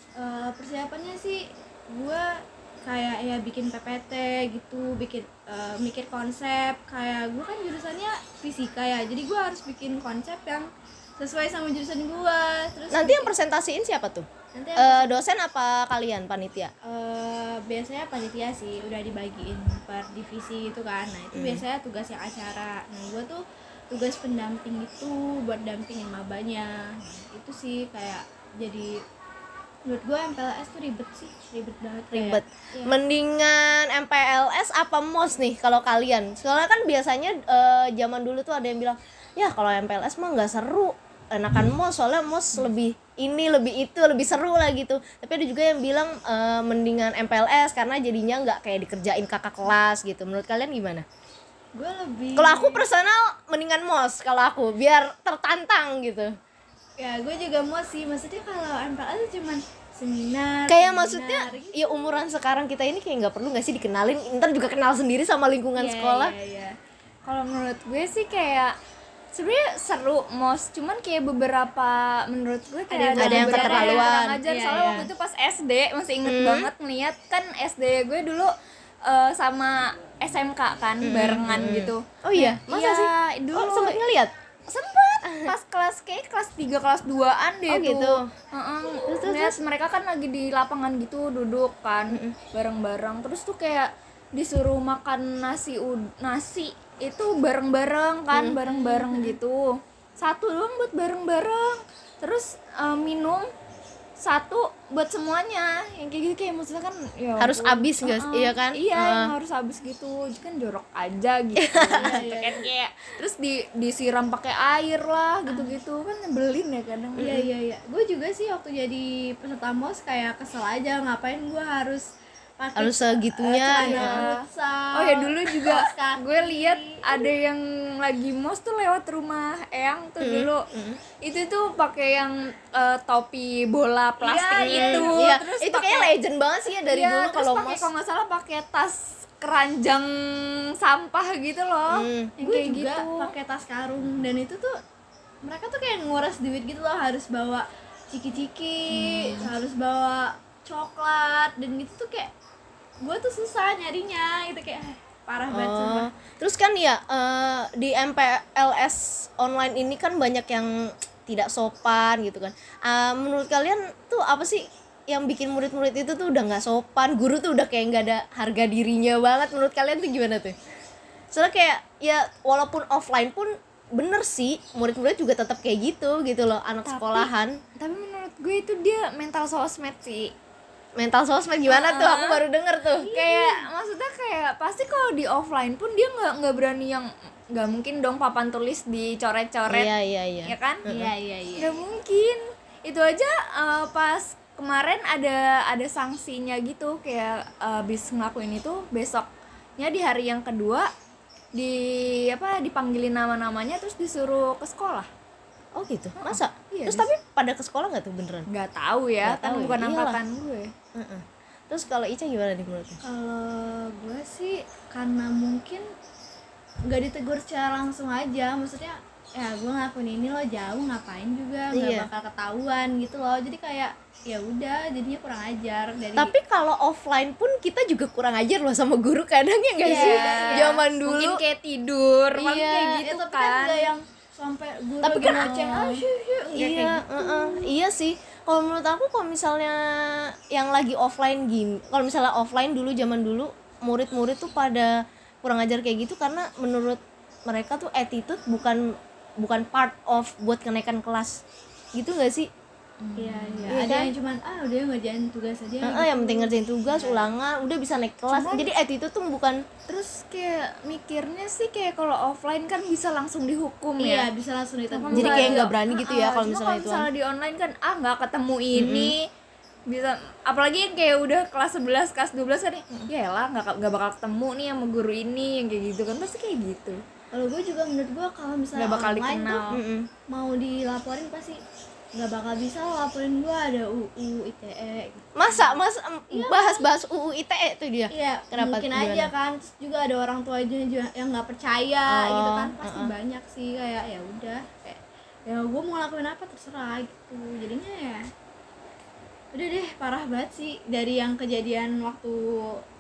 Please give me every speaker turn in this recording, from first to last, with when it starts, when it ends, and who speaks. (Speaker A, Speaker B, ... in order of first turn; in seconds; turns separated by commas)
Speaker A: 0.2-2.3, Speaker A: 2.8-13.3, Speaker B: 12.9-16.7, Speaker A: 14.5-15.2, Speaker A: 16.8-28.9, Speaker B: 21.3-21.6, Speaker A: 29.9-33.0, Speaker B: 32.1-51.0, Speaker A: 51.7-52.8, Speaker B: 52.4-56.3, Speaker A: 57.0-62.2, Speaker B: 60.7-66.3, Speaker A: 65.8-66.7, Speaker C: 67.2-68.8, Speaker C: 69.3-78.5, Speaker A: 72.9-75.1, Speaker B: 73.2-74.4, Speaker B: 76.2-76.7, Speaker C: 79.1-84.0, Speaker B: 81.0-84.3, Speaker C: 84.7-103.5, Speaker B: 85.2-85.6, Speaker B: 87.7-88.3, Speaker B: 89.1-89.6, Speaker B: 92.1-92.4, Speaker B: 98.3-98.6, Speaker A: 98.7-99.3, Speaker C: 104.2-117.4, Speaker B: 107.4-109.3, Speaker B: 111.6-112.2, Speaker A: 111.9-112.7, Speaker A: 115.5-115.8, Speaker B: 117.2-117.5, Speaker A: 117.2-122.0, Speaker A: 122.6-127.3, Speaker B: 122.8-124.2, Speaker C: 123.8-124.4, Speaker C: 124.9-130.6, Speaker B: 130.2-131.0, Speaker C: 131.2-136.1, Speaker A: 134.2-135.2, Speaker B: 134.6-137.9, Speaker C: 136.7-143.3, Speaker B: 141.9-142.3, Speaker A: 142.4-144.7, Speaker A: 145.4-152.3, Speaker C: 148.9-149.5, Speaker A: 153.0-156.1, Speaker B: 155.5-170.5, Speaker B: 171.3-177.6, Speaker C: 176.9-180.3, Speaker B: 181.0-183.1, Speaker C: 181.7-182.4, Speaker C: 183.0-189.9, Speaker A: 183.1-183.7, Speaker B: 189.7-191.1, Speaker C: 190.4-190.9, Speaker A: 190.9-191.8, Speaker C: 191.6-200.9, Speaker C: 201.6-205.1, Speaker B: 205.8-208.5, Speaker C: 206.2-207.1, Speaker C: 208.5-210.7, Speaker B: 209.2-210.2, Speaker B: 210.9-213.0, Speaker A: 213.0-215.8, Speaker A: 216.9-226.3, Speaker B: 221.7-222.1, Speaker B: 226.2-231.4, Speaker A: 229.8-230.8, Speaker C: 229.8-233.9, Speaker B: 232.3-233.0, Speaker A: 233.0-237.7, Speaker B: 235.0-235.9, Speaker C: 235.3-236.1, Speaker B: 236.5-244.9, Speaker B: 245.4-251.4, Speaker B: 252.0-252.5, Speaker C: 253.0-253.9, Speaker A: 253.2-257.3, Speaker B: 253.7-254.1, Speaker B: 255.8-259.6, Speaker C: 258.3-258.7, Speaker C: 259.9-264.3, Speaker A: 264.0-265.8, Speaker C: 264.9-269.3, Speaker B: 265.1-267.1, Speaker B: 268.8-269.1, Speaker C: 269.9-277.0, Speaker A: 277.3-279.7, Speaker C: 278.8-279.8, Speaker B: 279.7-280.1, Speaker A: 280.3-281.6, Speaker A: 282.1-285.6, Speaker B: 285.4-289.3, Speaker A: 286.3-286.9, Speaker A: 288.1-298.2, Speaker B: 292.1-293.1, Speaker A: 299.5-302.8